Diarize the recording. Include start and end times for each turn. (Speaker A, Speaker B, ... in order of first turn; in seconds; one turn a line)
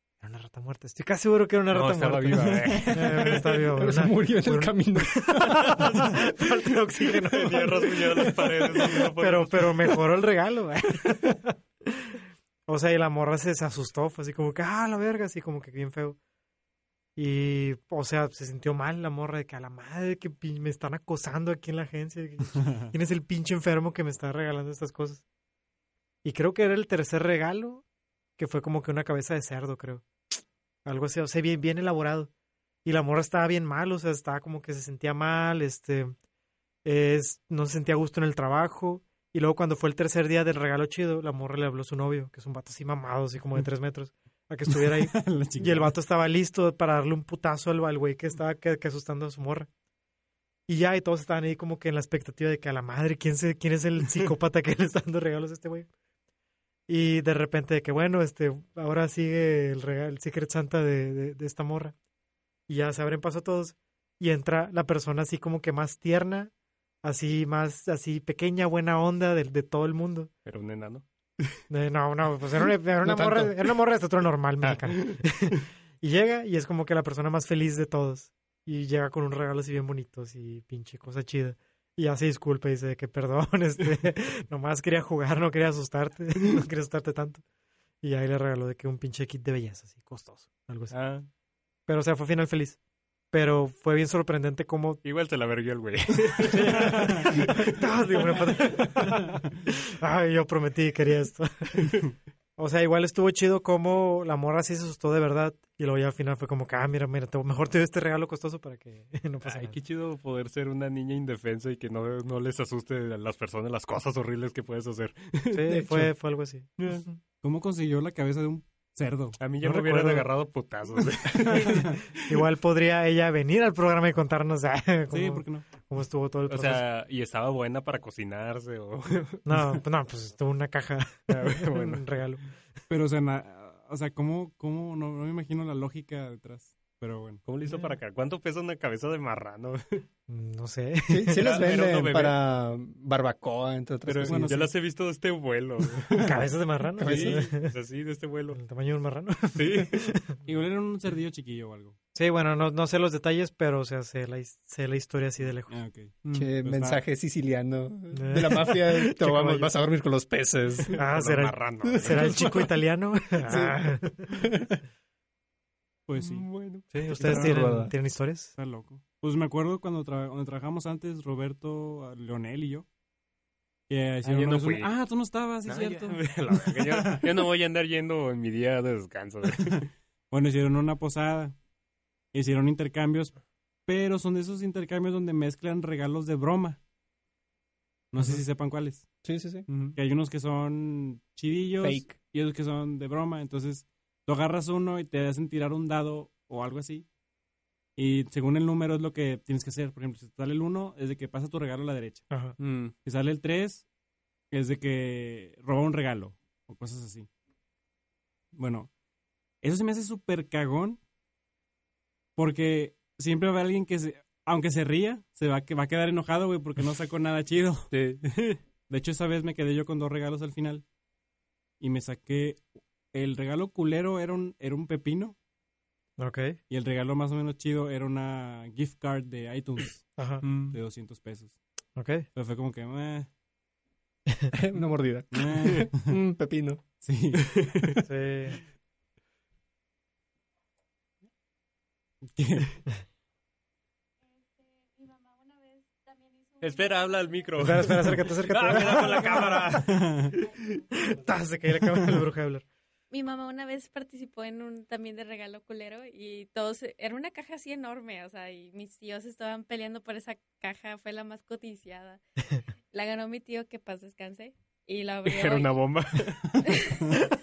Speaker A: 0.2-8.3
Speaker B: 1.7-3.7
Speaker C: 2.7-3.2
Speaker D: 3.8-6.1
Speaker B: 5.5-6.1
Speaker B: 7.3-9.9
Speaker D: 8.1-9.0
Speaker A: 8.9-16.2
Speaker A: 17.1-25.2
Speaker C: 22.6-22.9
Speaker A: 26.2-27.8
Speaker A: 28.4-30.0
Speaker A: 30.8-32.3
Speaker A: 32.8-36.1
Speaker A: 36.8-49.7
Speaker C: 44.7-45.9
Speaker A: 50.7-55.9
Speaker A: 56.9-61.9
Speaker A: 62.7-66.5
Speaker A: 67.0-70.3
Speaker B: 70.5-71.0
Speaker A: 71.7-87.4
Speaker D: 73.0-73.5
Speaker B: 74.7-75.2
Speaker A: 88.0-91.0
Speaker B: 90.9-91.3
Speaker A: 91.9-92.8
Speaker A: 93.3-95.0
Speaker B: 95.0-98.9
Speaker A: 96.4-101.9
Speaker A: 102.6-109.8
Speaker B: 109.4-115.9
Speaker A: 115.5-117.1
Speaker B: 116.8-117.0
Speaker C: 117.4-119.4
Speaker B: 119.4-122.4
Speaker A: 119.6-120.3
Speaker A: 121.5-126.8
Speaker C: 125.1-125.7
Speaker B: 126.5-129.4
Speaker A: 129.4-132.4
Speaker B: 131.3-132.1
Speaker C: 132.9-137.4
Speaker B: 137.4-140.0
Speaker A: 137.7-137.9
Speaker A: 140.3-141.6
Speaker D: 141.1-144.5
Speaker B: 141.3-142.4
Speaker B: 144.0-146.4
Speaker C: 144.2-144.7
Speaker A: 146.2-147.7
Speaker D: 147.0-147.4
Speaker B: 147.0-148.6
Speaker A: 148.5-150.3
Speaker B: 149.5-150.0
Speaker C: 150.4-151.9
Speaker A: 152.1-155.8
Speaker C: 155.7-157.0
Speaker D: 156.3-161.0
Speaker A: 158.1-159.7
Speaker B: 160.9-162.6
Speaker A: 160.9-164.3
Speaker D: 161.8-162.7
Speaker D: 163.4-164.8
Speaker C: 166.1-166.4
Speaker B: 166.2-166.9
Speaker A: 166.9-168.5
Speaker C: 167.1-167.9
Speaker D: 167.2-167.9
Speaker C: 168.6-172.8
Speaker C: 173.9-177.2
Speaker B: 174.2-174.9
Speaker B: 175.7-179.9
Speaker C: 180.3-181.5
Speaker C: 182.3-183.3
Speaker C: 183.9-186.8
Speaker C: 188.1-189.1
Speaker D: 189.2-189.7
Speaker B: 189.7-190.0
Speaker C: 189.9-197.1
Speaker D: 191.8-192.2
Speaker C: 197.9-202.2
Speaker A: 202.3-202.6
Speaker B: 202.6-202.9
Speaker C: 203.0-203.8
Speaker C: 204.5-207.3
Speaker C: 208.5-208.9
Speaker C: 209.6-211.0
Speaker C: 212.3-217.9
Speaker B: 217.9-218.6
Speaker C: 218.9-220.8
Speaker C: 221.8-225.3
Speaker A: 226.2-226.6
Speaker C: 226.7-231.6
Speaker A: 230.2-230.4
Speaker B: 230.4-230.8
Speaker A: 231.9-232.3
Speaker C: 232.3-233.3
Speaker D: 234.5-236.8
Speaker C: 235.3-236.1
Speaker C: 237.0-237.5
Speaker B: 237.5-238.0
Speaker A: 238.0-238.6
Speaker C: 242.3-242.7
Speaker E: 244.6-247.5
Speaker B: 246.6-250.4
Speaker A: 247.6-249.7
Speaker C: 249.7-250.3
Speaker A: 250.9-252.6
Speaker E: 253.1-262.2
Speaker E: 262.9-265.8
Speaker B: 265.2-266.7
Speaker E: 266.6-267.2